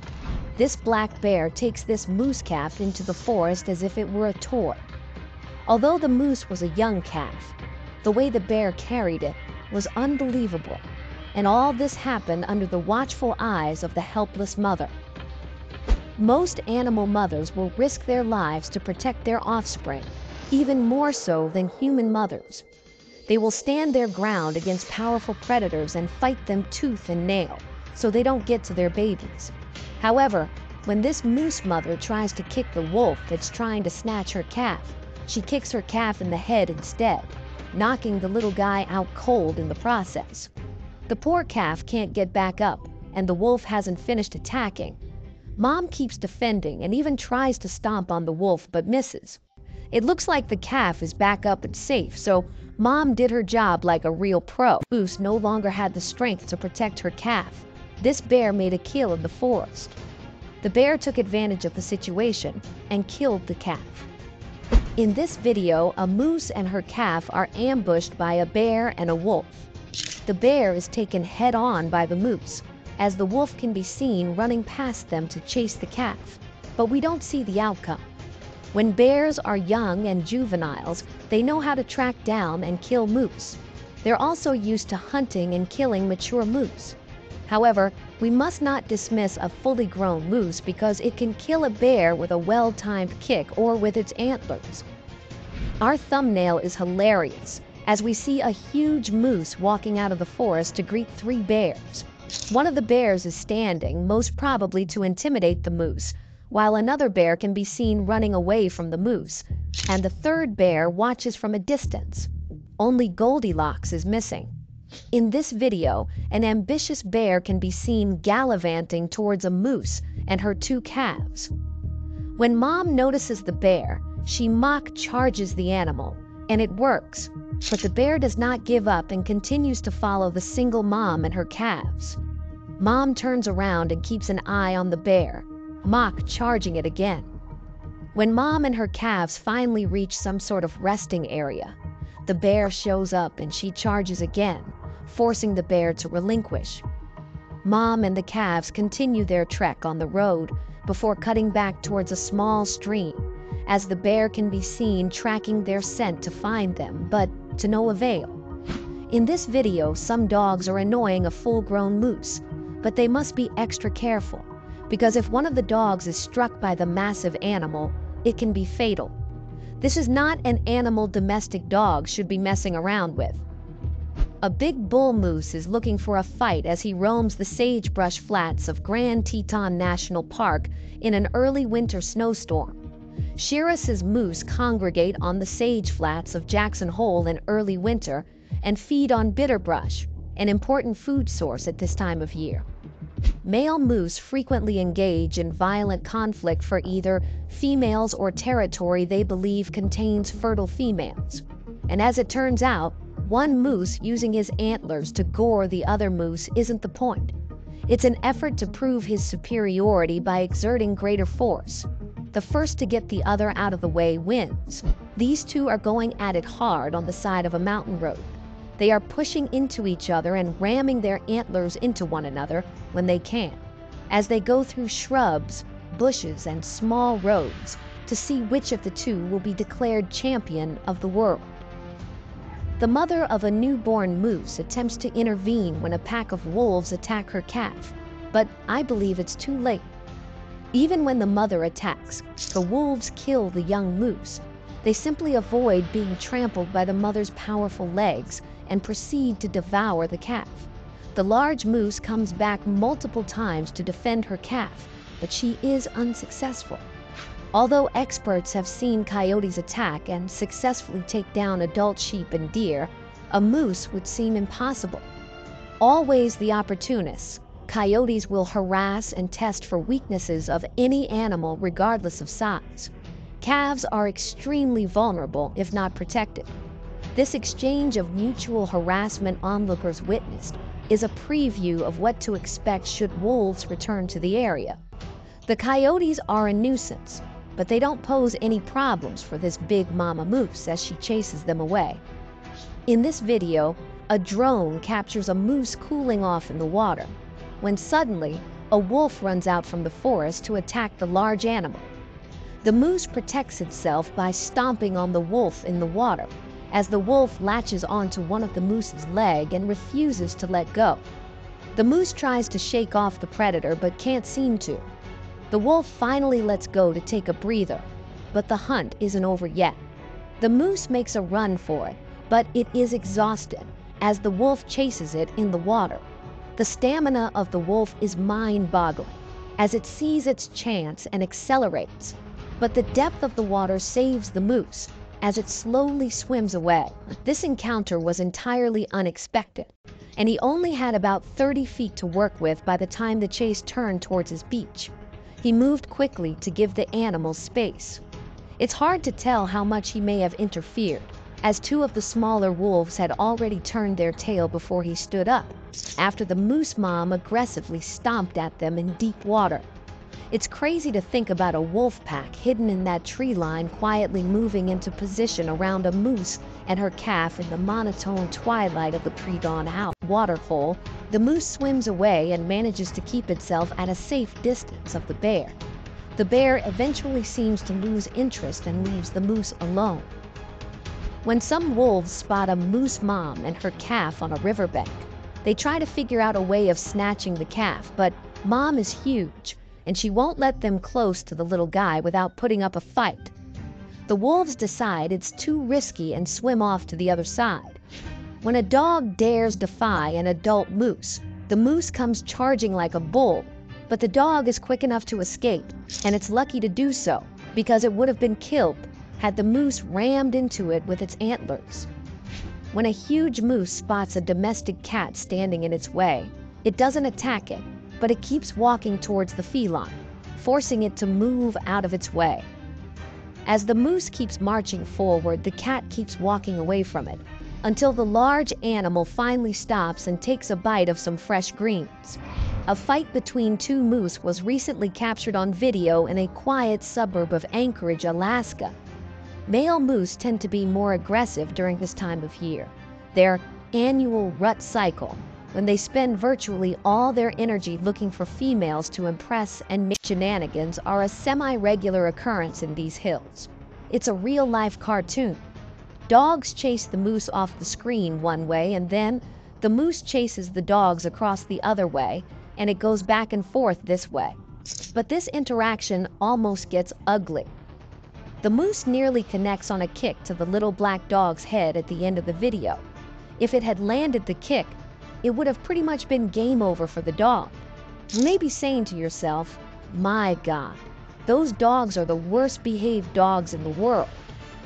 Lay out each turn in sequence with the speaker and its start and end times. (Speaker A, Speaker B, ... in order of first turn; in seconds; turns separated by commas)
Speaker A: 0.6-4.9, Speaker A: 5.7-14.9, Speaker A: 16.2-22.6, Speaker A: 23.3-40.5, Speaker A: 41.1-45.0, Speaker A: 45.6-49.4, Speaker A: 49.9-60.0, Speaker A: 60.6-64.0, Speaker A: 65.0-69.7, Speaker A: 70.2-78.0, Speaker A: 78.7-94.8, Speaker A: 95.8-114.5, Speaker A: 115.1-121.5, Speaker A: 122.3-132.2, Speaker A: 132.8-137.3, Speaker A: 138.1-146.8, Speaker A: 147.6-158.4, Speaker A: 159.1-169.2, Speaker A: 169.8-173.4, Speaker A: 174.4-182.8, Speaker A: 183.3-192.6, Speaker A: 193.4-207.3, Speaker A: 207.9-231.7, Speaker A: 232.8-239.9, Speaker A: 240.7-256.9, Speaker A: 257.5-265.1, Speaker A: 265.8-276.5, Speaker A: 277.1-284.8, Speaker A: 285.4-292.0, Speaker A: 292.9-301.9, Speaker A: 302.6-311.0, Speaker A: 311.7-314.9, Speaker A: 315.5-319.8, Speaker A: 320.4-348.0, Speaker A: 348.6-359.7, Speaker A: 360.3-375.6, Speaker A: 376.1-380.1, Speaker A: 381.2-393.3, Speaker A: 394.1-397.8, Speaker A: 398.4-411.9, Speaker A: 412.7-422.5, Speaker A: 423.4-438.7, Speaker A: 439.5-455.4, Speaker A: 456.1-464.4, Speaker A: 464.9-467.5, Speaker A: 468.4-472.8, Speaker A: 473.4-484.2